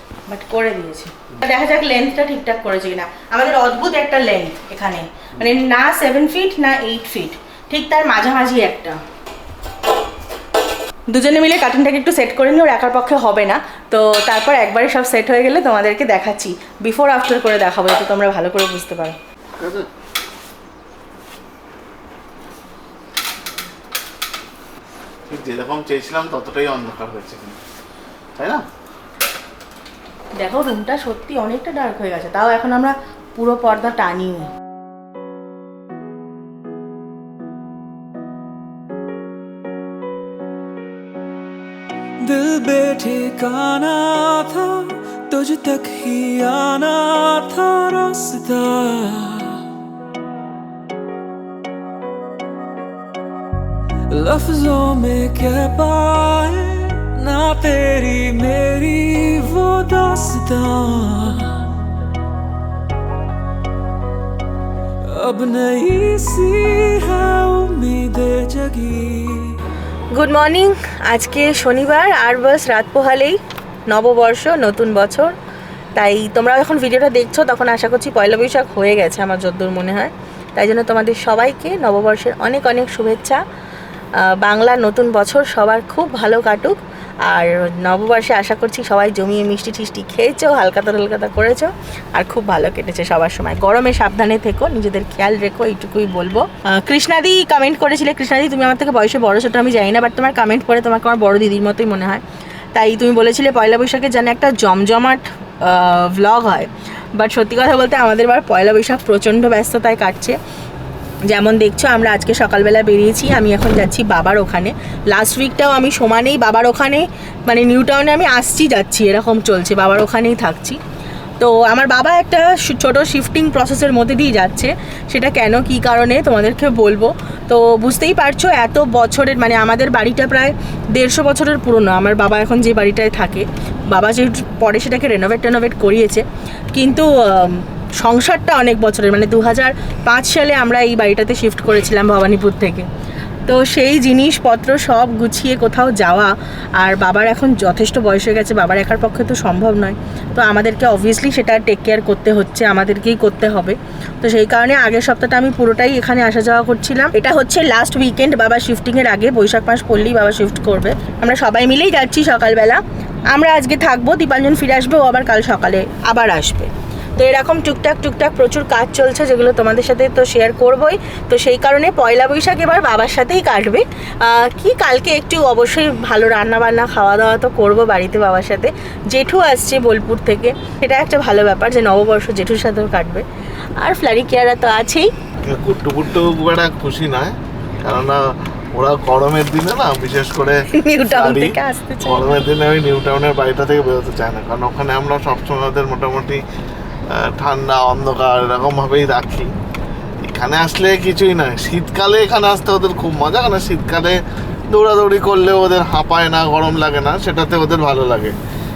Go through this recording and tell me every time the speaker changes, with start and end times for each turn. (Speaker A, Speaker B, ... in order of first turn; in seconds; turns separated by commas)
Speaker A: 0.3-9.0, Speaker A: 11.1-19.2, Speaker B: 19.6-19.9, Speaker B: 25.3-27.6, Speaker B: 28.4-28.6, Speaker A: 30.4-34.5, Speaker C: 42.2-49.6, Speaker C: 54.1-61.7, Speaker C: 65.0-69.6, Speaker A: 70.1-75.3, Speaker A: 76.0-83.4, Speaker A: 84.2-102.2, Speaker A: 102.7-110.4, Speaker A: 111.2-120.8, Speaker A: 121.4-142.9, Speaker A: 143.5-183.2, Speaker A: 183.8-185.1, Speaker B: 185.4-196.4, Speaker A: 190.7-192.3, Speaker B: 197.1-199.5, Speaker B: 200.2-208.3